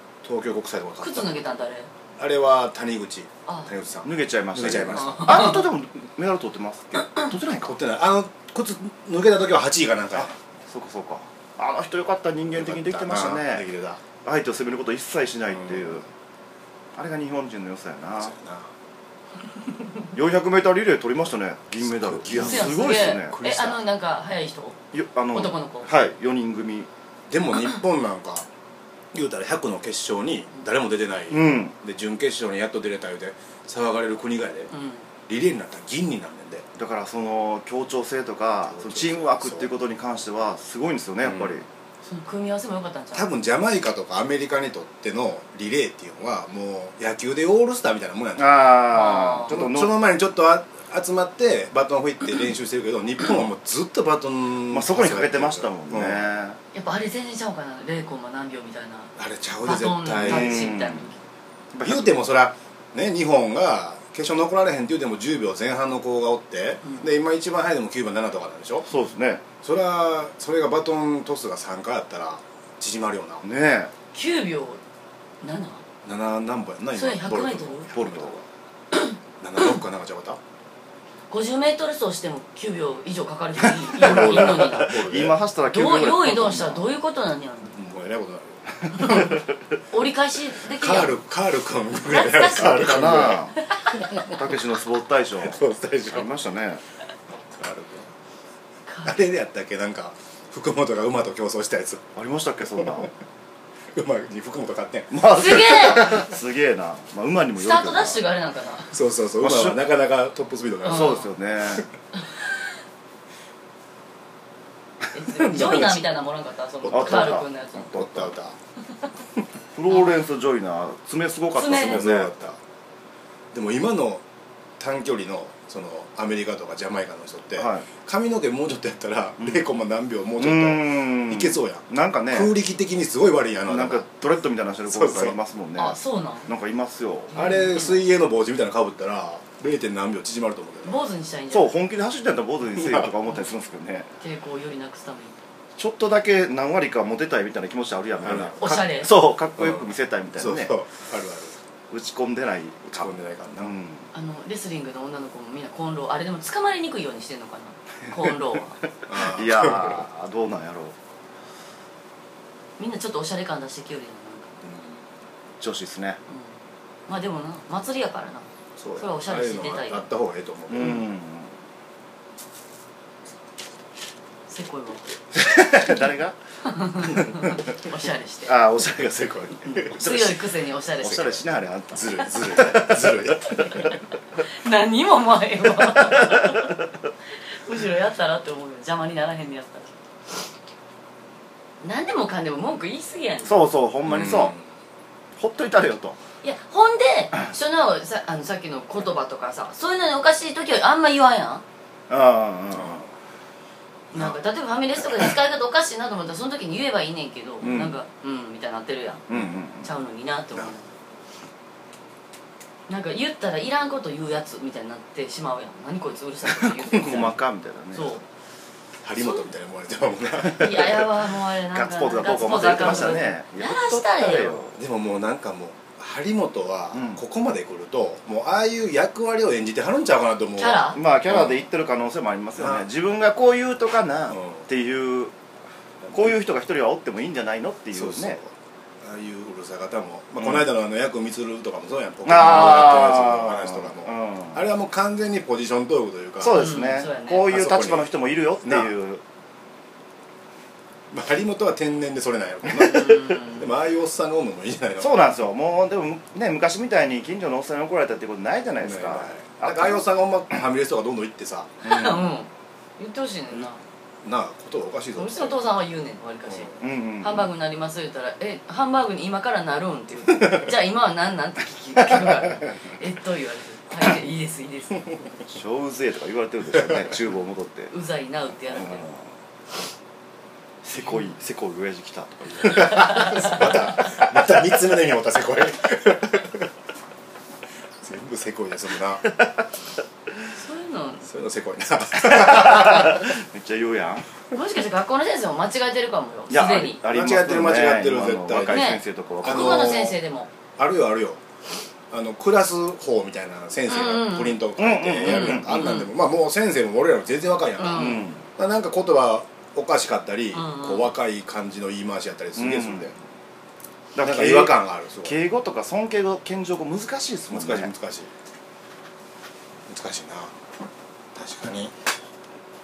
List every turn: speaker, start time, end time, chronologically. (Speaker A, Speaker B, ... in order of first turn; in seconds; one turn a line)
Speaker A: 0.2-1.4
Speaker B: 1.0-1.9
Speaker A: 2.2-5.6
Speaker C: 4.0-7.8
Speaker B: 5.0-5.6
Speaker A: 7.6-10.3
Speaker C: 10.2-13.7
Speaker A: 12.5-14.0
Speaker C: 14.2-16.1
Speaker A: 15.5-16.0
Speaker C: 17.0-18.3
Speaker A: 18.2-18.7
Speaker C: 20.1-23.4
Speaker A: 21.8-23.8
Speaker B: 22.3-24.8
Speaker C: 24.9-26.9
Speaker B: 25.3-25.9
Speaker A: 27.3-28.5
Speaker A: 29.1-34.7
Speaker C: 31.3-31.7
Speaker B: 34.7-35.1
Speaker A: 35.3-36.6
Speaker C: 36.8-41.7
Speaker A: 38.6-39.7
Speaker B: 42.0-43.3
Speaker A: 43.1-48.6
Speaker C: 48.4-50.0
Speaker B: 48.9-49.6
Speaker A: 49.5-56.3
Speaker C: 54.7-56.6
Speaker B: 56.7-59.1
Speaker A: 59.2-60.7
Speaker B: 59.6-61.2
Speaker C: 60.2-61.1
Speaker C: 61.7-62.1
Speaker A: 61.8-68.9
Speaker B: 66.8-67.1
Speaker C: 68.9-69.4
Speaker A: 69.6-73.4
Speaker C: 73.4-73.9
Speaker B: 74.1-74.8
Speaker B: 75.4-75.8
Speaker A: 76.0-78.5
Speaker B: 76.9-77.9
Speaker C: 77.9-78.4
Speaker A: 79.4-80.4
Speaker B: 81.3-85.1
Speaker A: 83.9-85.4
Speaker C: 83.9-86.9
Speaker B: 85.6-87.8
Speaker A: 87.7-89.3
Speaker C: 88.8-89.4
Speaker B: 88.9-89.3
Speaker B: 89.9-91.2
Speaker A: 90.7-93.4
Speaker B: 92.1-93.0
Speaker C: 92.6-93.6
Speaker B: 93.6-94.3
Speaker C: 94.2-96.8
Speaker A: 95.4-96.3
Speaker A: 97.6-98.1
Speaker B: 98.9-99.2
Speaker A: 99.0-102.1
Speaker C: 102.2-103.1
Speaker A: 102.8-103.1
Speaker A: 104.0-106.2
Speaker C: 105.1-108.2
Speaker B: 105.3-106.2
Speaker B: 107.5-109.0
Speaker A: 108.9-111.8
Speaker C: 109.4-109.8
Speaker C: 110.8-111.9
Speaker B: 110.9-111.3
Speaker B: 115.1-118.0
Speaker A: 115.4-116.0
Speaker C: 115.5-115.8
Speaker A: 116.8-118.6
Speaker C: 116.9-118.3
Speaker C: 119.7-122.3
Speaker B: 121.5-122.0
Speaker A: 121.7-122.6
Speaker A: 123.5-124.2
Speaker A: 124.8-134.0
Speaker C: 127.6-127.9
Speaker C: 129.4-129.7
Speaker C: 130.4-132.5
Speaker C: 133.7-137.5
Speaker A: 134.9-135.4
Speaker B: 135.8-136.5
Speaker B: 137.3-138.0
Speaker A: 137.3-141.0
Speaker B: 140.8-141.8
Speaker C: 141.5-144.1
Speaker A: 142.8-143.1
Speaker B: 144.2-145.4
Speaker C: 145.8-150.7
Speaker A: 148.2-148.9
Speaker B: 148.6-149.1
Speaker A: 149.6-151.6
Speaker C: 151.9-154.1
Speaker A: 152.9-153.8
Speaker B: 154.1-158.8
Speaker A: 159.1-160.1
Speaker C: 159.1-160.9
Speaker B: 162.8-164.5
Speaker A: 164.6-165.0
Speaker C: 165.6-166.2
Speaker B: 167.1-168.5
Speaker A: 168.8-171.1
Speaker B: 169.0-170.1
Speaker C: 170.7-171.5
Speaker B: 174.5-175.0
Speaker C: 175.3-176.4
Speaker B: 176.7-178.6
Speaker C: 177.1-177.5
Speaker C: 178.5-183.9
Speaker B: 179.8-181.4
Speaker A: 182.2-183.9
Speaker B: 184.6-186.7
Speaker C: 185.8-186.7
Speaker B: 187.6-189.9
Speaker B: 191.8-193.6
Speaker C: 193.4-194.5
Speaker A: 194.1-194.7
Speaker C: 195.4-196.2
Speaker B: 196.4-201.6
Speaker C: 202.1-203.1
Speaker A: 202.7-203.1
Speaker B: 204.1-209.2
Speaker A: 207.6-207.9
Speaker C: 207.6-207.9
Speaker C: 209.3-209.9
Speaker B: 209.8-210.9
Speaker B: 212.9-217.4
Speaker C: 216.5-218.2
Speaker A: 217.0-217.3
Speaker B: 217.9-218.2
Speaker A: 219.0-221.1
Speaker B: 219.2-219.5
Speaker B: 220.5-224.7
Speaker C: 220.7-221.0
Speaker C: 221.7-224.8
Speaker A: 222.7-223.2
Speaker A: 224.8-231.7
Speaker C: 226.9-227.2
Speaker B: 230.6-231.0
Speaker C: 230.9-235.3
Speaker A: 232.6-232.9
Speaker A: 234.3-234.7
Speaker A: 236.1-236.4
Speaker C: 236.1-238.4
Speaker A: 237.9-246.7
Speaker C: 240.4-240.7
Speaker C: 242.3-244.6
Speaker C: 246.4-249.2
Speaker B: 246.5-247.5
Speaker A: 247.5-248.9
Speaker A: 251.1-255.1
Speaker B: 252.7-253.7
Speaker C: 252.8-253.1
Speaker C: 255.0-260.1
Speaker A: 258.8-261.7
Speaker B: 261.8-263.8
Speaker C: 261.8-262.3
Speaker A: 264.2-265.6
Speaker B: 265.2-275.1
Speaker A: 266.5-266.8
Speaker C: 266.8-267.5
Speaker C: 275.4-277.9
Speaker B: 277.9-279.0
Speaker C: 278.7-279.3
Speaker C: 280.8-283.9
Speaker B: 281.0-281.4
Speaker A: 282.6-286.7
Speaker B: 282.8-283.7
Speaker A: 288.0-289.2
Speaker C: 289.3-289.6
Speaker B: 290.6-291.3
Speaker A: 291.3-293.2
Speaker C: 292.2-294.3
Speaker B: 294.5-297.0
Speaker C: 296.5-299.9
Speaker A: 297.0-300.2
Speaker B: 298.7-300.5
Speaker A: 300.8-301.4
Speaker A: 302.1-313.1
Speaker B: 303.9-304.6
Speaker C: 304.8-305.9
Speaker B: 305.2-306.1
Speaker B: 307.8-308.3
Speaker C: 307.9-308.4
Speaker B: 310.5-311.1
Speaker C: 312.6-313.1
Speaker C: 314.1-317.9
Speaker A: 314.2-315.4
Speaker A: 317.5-318.3
Speaker A: 319.9-320.5
Speaker A: 321.4-321.9